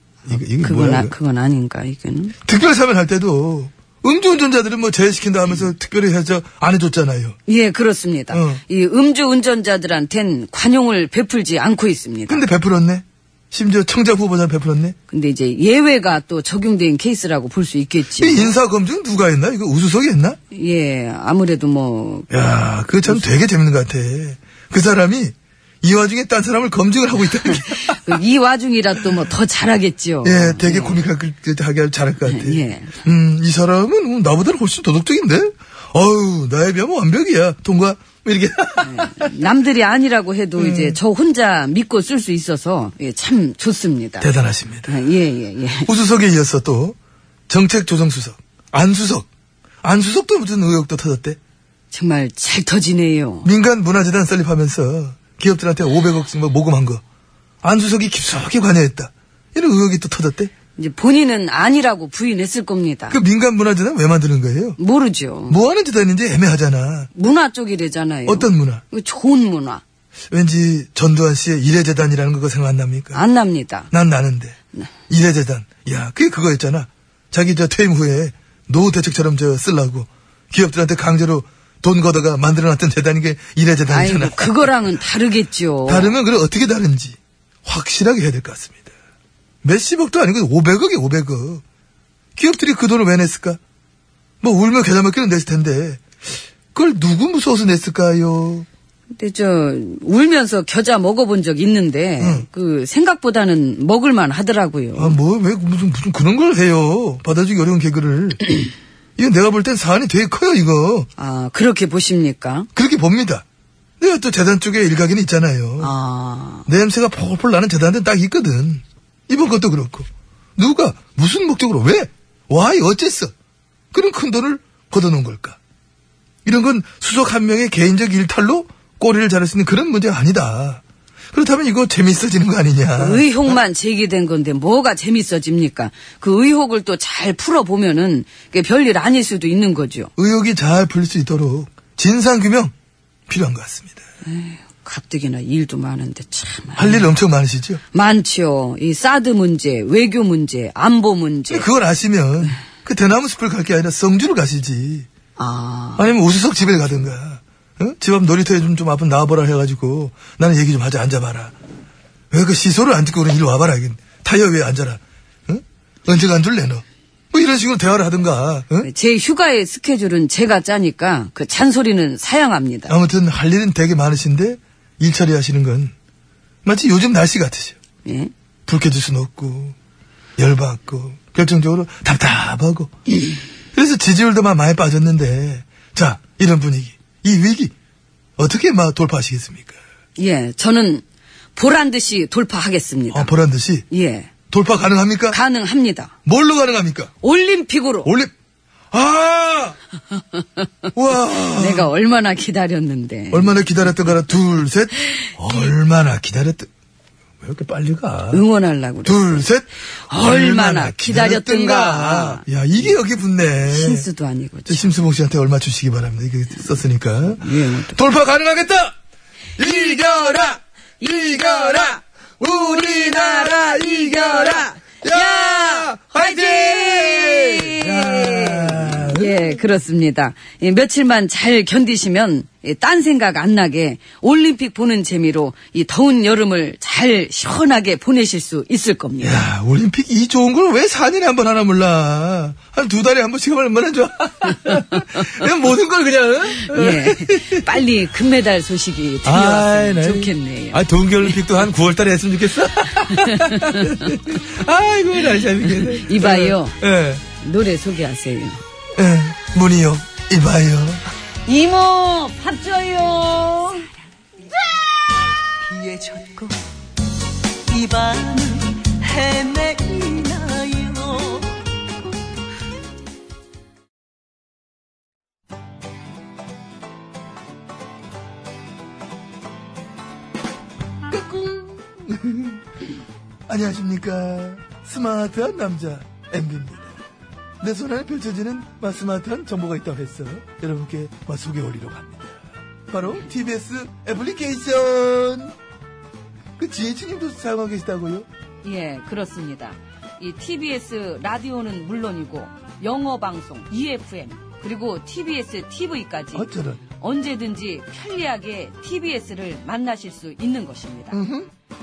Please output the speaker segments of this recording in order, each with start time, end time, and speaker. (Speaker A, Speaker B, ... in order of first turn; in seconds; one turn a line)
Speaker A: 0.2-1.1
Speaker B: 0.6-2.4
Speaker A: 2.4-7.4
Speaker B: 7.5-12.4
Speaker A: 8.3-8.6
Speaker A: 12.3-14.9
Speaker B: 15.1-18.6
Speaker A: 18.2-20.4
Speaker B: 20.5-22.3
Speaker A: 22.3-28.2
Speaker B: 27.4-31.0
Speaker A: 30.2-39.3
Speaker B: 32.2-33.0
Speaker B: 38.8-44.3
Speaker A: 40.6-41.0
Speaker A: 44.2-44.9
Speaker B: 44.9-45.9
Speaker A: 45.9-47.0
Speaker A: 47.5-49.3
Speaker A: 49.8-51.4
Speaker B: 51.9-53.5
Speaker A: 53.4-57.0
Speaker A: 57.6-60.5
Speaker B: 60.8-63.2
Speaker A: 63.1-64.8
Speaker B: 64.8-65.6
Speaker A: 65.5-67.1
Speaker B: 67.1-69.8
Speaker A: 68.3-68.8
Speaker A: 70.3-73.2
Speaker B: 73.1-73.9
Speaker A: 73.9-74.6
Speaker A: 75.1-85.0
Speaker B: 83.9-86.2
Speaker A: 85.8-88.9
Speaker A: 89.6-91.6
Speaker A: 92.3-93.6
Speaker A: 94.4-98.7
Speaker B: 99.2-105.2
Speaker A: 102.2-102.5
Speaker A: 104.9-108.5
Speaker A: 109.2-111.1
Speaker B: 111.2-112.7
Speaker A: 112.7-113.4
Speaker A: 114.0-115.9
Speaker B: 115.8-116.7
Speaker A: 116.7-123.3
Speaker A: 123.9-125.6
Speaker A: 126.4-133.5
Speaker B: 132.9-140.1
Speaker A: 140.2-142.7
Speaker A: 143.3-144.0
Speaker B: 144.2-147.1
Speaker A: 146.8-147.8
Speaker B: 147.9-151.7
Speaker A: 151.5-155.1
Speaker B: 155.4-156.1
Speaker A: 155.9-161.5
Speaker A: 162.3-168.9
Speaker B: 168.8-172.9
Speaker A: 172.9-175.9
Speaker A: 176.6-177.8
Speaker B: 178.0-178.3
Speaker A: 178.7-179.8
Speaker A: 180.4-182.9
Speaker A: 183.7-187.7
Speaker A: 188.4-189.8
Speaker B: 190.2-191.0
Speaker B: 191.5-193.3
Speaker A: 193.1-193.9
Speaker B: 193.9-194.3
Speaker A: 194.5-195.4
Speaker B: 195.3-196.1
Speaker A: 196.2-197.1
Speaker B: 197.2-198.1
Speaker A: 198.0-198.3
Speaker A: 198.9-199.8
Speaker B: 200.4-200.7
Speaker A: 200.9-201.9
Speaker B: 201.5-203.8
Speaker A: 203.3-206.7
Speaker A: 207.4-208.4
Speaker B: 208.3-209.5
Speaker A: 209.0-214.1
Speaker B: 210.1-212.4
Speaker B: 213.7-214.9
Speaker A: 214.7-218.9
Speaker B: 217.4-218.0
Speaker A: 219.6-229.6
Speaker B: 219.6-220.4
Speaker B: 221.0-239.4
Speaker A: 239.2-247.8
Speaker B: 246.6-250.8
Speaker A: 249.2-257.2
Speaker B: 253.1-254.1
Speaker B: 255.7-256.8
Speaker B: 257.3-258.6
Speaker A: 258.9-261.0
Speaker B: 261.4-263.9
Speaker C: 265.6-266.6
Speaker C: 267.7-271.6
Speaker A: 281.1-282.6
Speaker A: 283.5-286.9
Speaker A: 287.6-292.4
Speaker A: 292.9-295.5
Speaker A: 296.6-298.2
Speaker B: 298.6-311.2
Speaker A: 306.3-306.8
Speaker A: 311.1-311.5